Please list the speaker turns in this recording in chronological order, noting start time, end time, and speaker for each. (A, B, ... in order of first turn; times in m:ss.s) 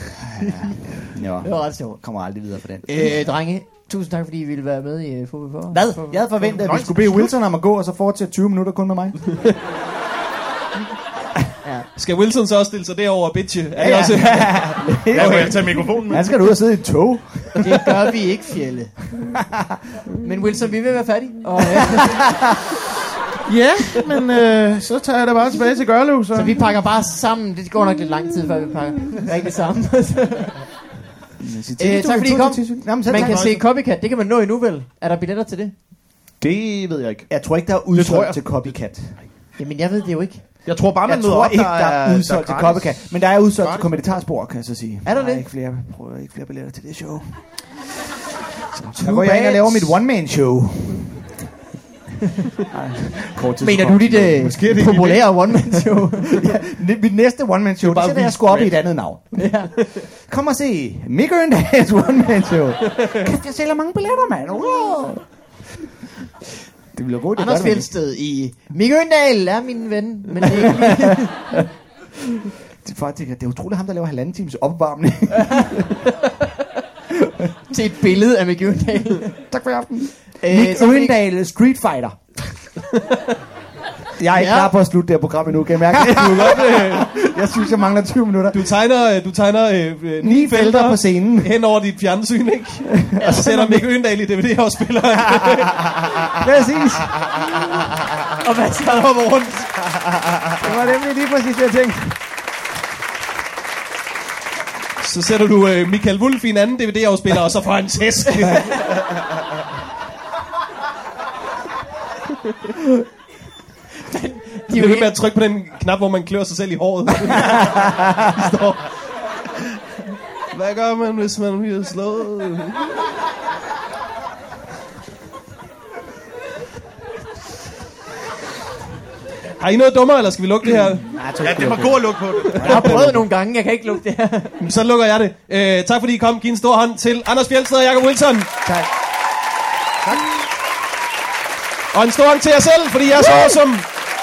0:00.4-0:03.3 A
0:01.4-0:06.3 B
0:05.7-0:09.6 A
0:06.3-0:07.4 C
0:11.6-0:11.9 B
0:11.9-0:15.5 D
0:13.8-0:17.9 A
0:15.1-0:16.5 C
0:17.6-0:19.0 B
0:20.2-0:22.4 B
0:23.4-0:26.7 C
0:26.3-0:30.8 B
0:31.4-0:33.5 A
0:31.8-0:35.8 B
0:33.1-0:33.6 C
0:36.4-0:39.1 C
0:36.4-0:39.2 A
0:39.6-0:40.5 B
0:40.6-0:44.0 C
0:41.0-0:48.0 A
0:45.0-0:45.4 B
0:48.7-0:51.3 A
0:49.0-0:50.0 B
0:52.7-0:54.8 A
0:53.6-0:56.6 B
0:54.4-0:55.5 C
0:56.4-1:05.6 A
0:57.8-0:58.8 C
0:57.9-0:58.6 D
0:59.3-0:59.7 B
1:06.9-1:07.9 A
1:07.3-1:11.3 B
1:12.8-1:16.0 A
1:17.7-1:19.5 B
1:19.5-1:22.5 A
1:20.4-1:21.2 B
1:24.2-1:28.7 A
1:24.3-1:24.8 B
1:25.9-1:27.2 D
1:28.5-1:36.0 D
1:30.2-1:31.5 A
1:33.2-1:33.6 B
1:33.2-1:33.8 A
1:36.4-1:37.3 A
1:38.4-1:39.7 B
1:38.9-1:39.8 D
1:40.6-1:42.2 A
1:45.0-1:48.9 D
1:54.0-1:55.1 B
1:54.7-1:58.9 D
2:00.5-2:02.9 D
2:09.6-2:11.2 D
2:10.6-2:13.2 A
2:11.4-2:12.8 C
2:12.6-2:14.6 B
2:14.6-2:18.5 D
2:21.9-2:23.8 D
2:23.2-2:23.6 B